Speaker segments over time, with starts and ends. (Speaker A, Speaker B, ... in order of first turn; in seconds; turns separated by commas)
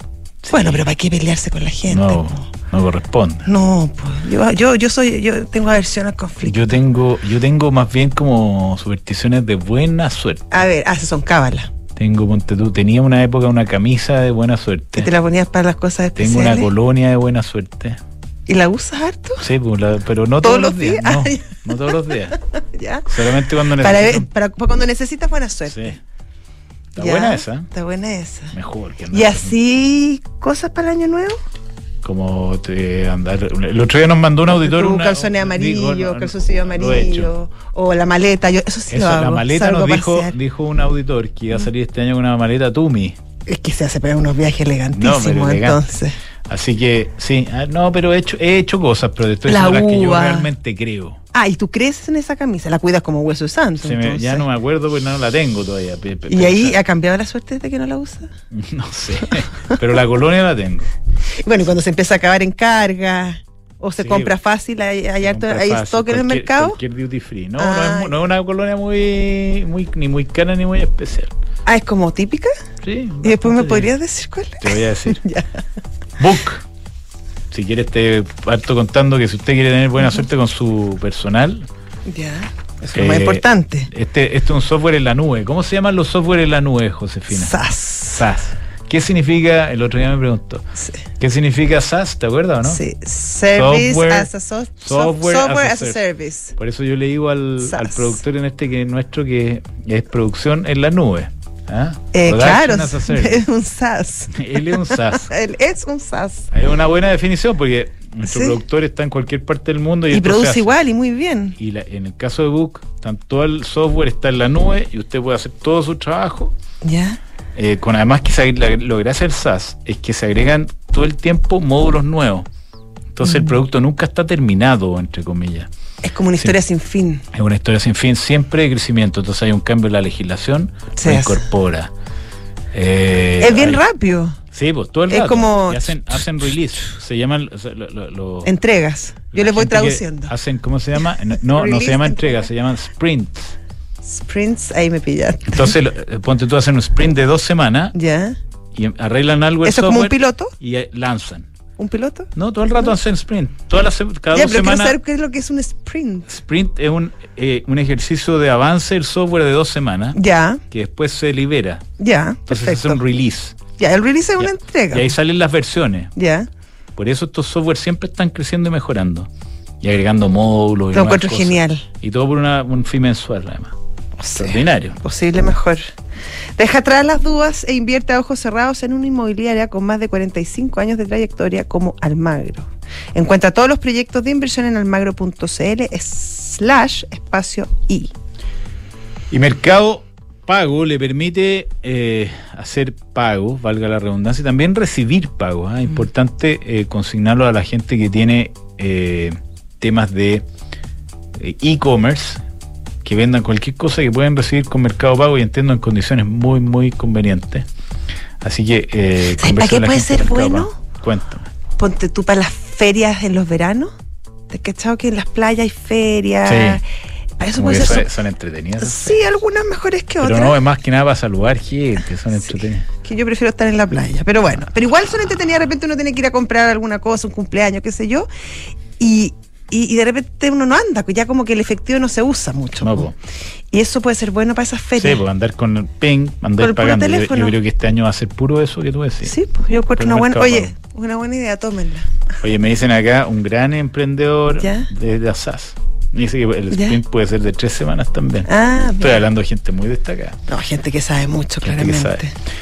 Speaker A: 0.4-0.8, Speaker B: 0.5-2.5, Speaker A: 1.9-3.5, Speaker B: 3.5-6.8, Speaker A: 6.4-10.6, Speaker B: 10.5-11.7, Speaker A: 12.0-15.1, Speaker B: 15.0-16.7, Speaker A: 16.2-18.0, Speaker B: 18.5-19.5, Speaker A: 19.4-22.4, Speaker B: 20.4-21.6, Speaker B: 22.6-23.1, Speaker A: 23.1-24.3, Speaker B: 23.8-26.0, Speaker A: 25.7-26.0, Speaker A: 26.9-27.7, Speaker B: 27.0-28.6, Speaker A: 28.5-29.5, Speaker B: 29.1-31.4, Speaker A: 32.0-37.3, Speaker B: 34.5-40.3, Speaker A: 38.9-43.2, Speaker B: 43.5-46.2, Speaker A: 44.9-45.8, Speaker A: 46.5-51.2, Speaker B: 49.5-50.5, Speaker B: 51.3-54.5, Speaker A: 53.8-56.8, Speaker B: 56.3-58.3, Speaker A: 58.5-60.9, Speaker B: 61.4-66.8, Speaker A: 64.0-64.3, Speaker A: 65.2-71.3, Speaker B: 67.6-68.1, Speaker B: 71.7-72.5, Speaker A: 72.8-73.9, Speaker B: 73.2-75.6, Speaker A: 74.6-75.2, Speaker A: 76.2-76.6, Speaker A: 77.5-81.7, Speaker B: 82.1-83.9, Speaker A: 82.9-90.7, Speaker B: 87.3-88.2, Speaker A: 91.2-92.8, Speaker B: 92.7-96.6, Speaker A: 93.5-94.3, Speaker A: 94.8-96.0, Speaker A: 96.6-103.5, Speaker B: 97.6-98.1, Speaker B: 102.1-106.5, Speaker A: 104.3-105.3, Speaker A: 106.5-110.8, Speaker B: 108.2-108.6, Speaker B: 110.1-111.6, Speaker A: 111.6-116.5, Speaker B: 116.8-117.2, Speaker A: 117.5-122.5, Speaker A: 123.1-125.7, Speaker B: 123.2-123.6, Speaker B: 126.0-127.2, Speaker A: 127.3-131.9, Speaker B: 130.9-131.4, Speaker A: 132.7-133.8, Speaker B: 133.4-134.4, Speaker A: 134.5-138.5, Speaker B: 135.1-136.2, Speaker B: 138.4-140.3, Speaker A: 139.3-143.6, Speaker B: 141.5-142.4, Speaker B: 144.0-145.8, Speaker A: 145.5-147.9, Speaker B: 147.9-148.4, Speaker A: 148.7-151.5, Speaker B: 149.6-150.5, Speaker B: 151.8-152.3, Speaker A: 152.3-155.0, Speaker B: 154.3-156.3, Speaker A: 156.3-161.8, Speaker B: 160.1-160.6, Speaker B: 162.0-163.0, Speaker A: 162.5-163.6, Speaker B: 163.8-165.1, Speaker A: 164.4-166.1, Speaker B: 166.2-166.5, Speaker A: 167.0-169.3, Speaker A: 169.8-173.7, Speaker B: 170.9-171.9, Speaker B: 174.2-175.9, Speaker A: 174.3-175.0, Speaker B: 176.6-188.1, Speaker A: 189.3-200.4, Speaker A: 201.4-202.4, Speaker A: 203.0-207.7, Speaker A: 208.4-211.5, Speaker B: 209.4-210.8, Speaker B: 211.8-213.9, Speaker B: 214.5-216.8, Speaker A: 216.4-216.8, Speaker B: 217.4-218.1, Speaker A: 217.6-219.2, Speaker B: 218.8-220.6, Speaker A: 220.2-222.9, Speaker B: 223.0-228.3, Speaker B: 229.0-233.1, Speaker A: 232.8-233.2, Speaker B: 233.7-235.2, Speaker A: 235.0-239.4, Speaker B: 236.6-237.6, Speaker B: 239.2-242.1, Speaker A: 240.0-240.7, Speaker A: 242.4-250.4, Speaker B: 244.6-244.9, Speaker B: 246.7-247.0, Speaker B: 248.5-249.2, Speaker B: 250.5-252.3, Speaker A: 251.6-252.2